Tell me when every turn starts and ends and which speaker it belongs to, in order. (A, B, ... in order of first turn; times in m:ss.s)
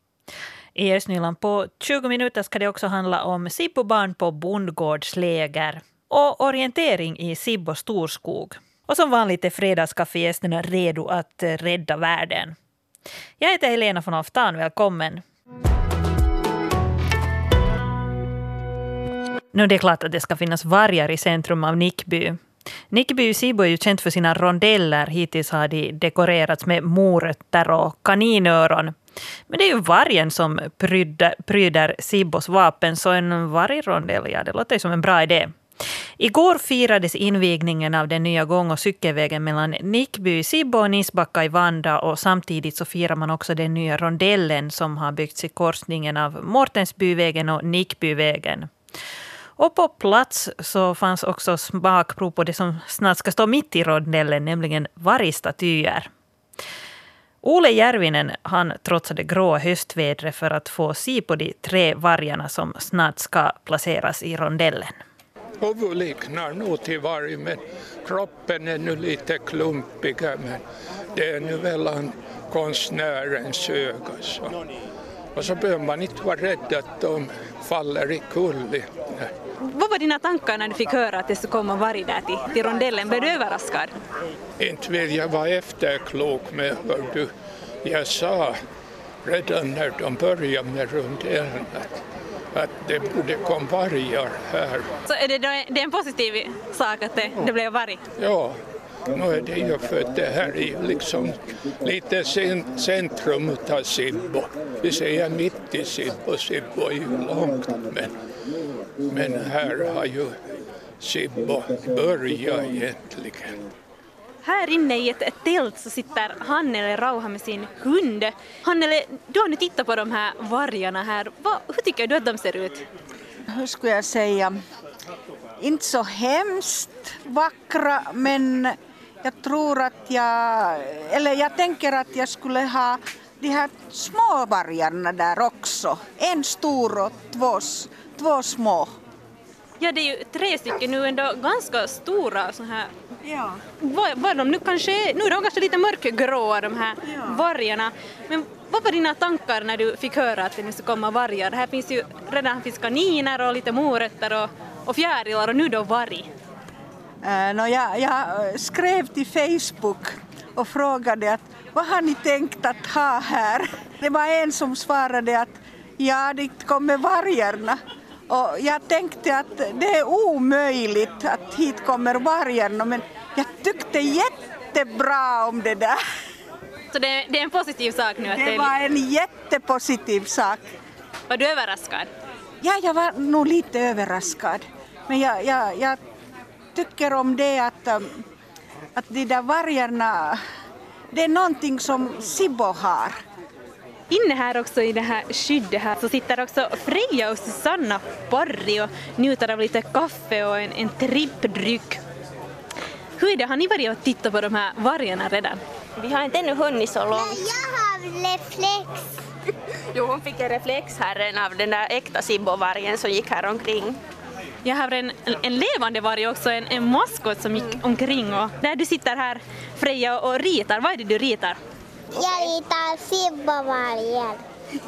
0:00.8-0:12.6 A
0:13.4-0:15.2 A
0:19.5-0:22.4 A
0:22.9-0:28.9 A
0:29.5-0:35.6 A
0:36.2-0:48.7 A
0:49.6-0:56.1 A
0:57.4-1:05.0 A
1:05.6-1:10.6 B
1:11.1-1:14.5 B
1:15.3-1:19.3 B
1:19.6-1:23.9 C
1:24.6-1:27.3 B
1:27.8-1:28.6 B
1:29.2-1:32.0 B
1:32.5-1:34.9 B
1:35.1-1:38.0 C
1:38.2-1:38.6 B
1:39.1-1:48.1 B
1:49.1-1:50.3 B
1:51.0-1:53.6 B
1:54.4-2:02.8 C
2:03.5-2:04.6 D
2:05.6-2:18.9 D
2:19.8-2:22.9 C
2:23.2-2:23.6 D
2:23.8-2:36.3 C
2:27.0-2:27.4 D
2:37.2-2:56.0 D
2:56.9-2:58.7 C
2:58.3-3:00.6 D
3:01.3-3:02.1 C
3:02.6-3:06.0 D
3:06.7-3:08.2 D
3:09.0-3:10.4 D
3:11.1-3:13.2 D
3:14.1-3:22.0 C
3:23.2-3:25.6 C
3:26.0-3:27.4 E
3:27.1-3:29.1 F
3:29.9-3:34.0 E
3:34.6-3:41.6 C
3:37.5-3:37.8 E
3:42.1-3:44.4 F
3:42.2-3:42.5 E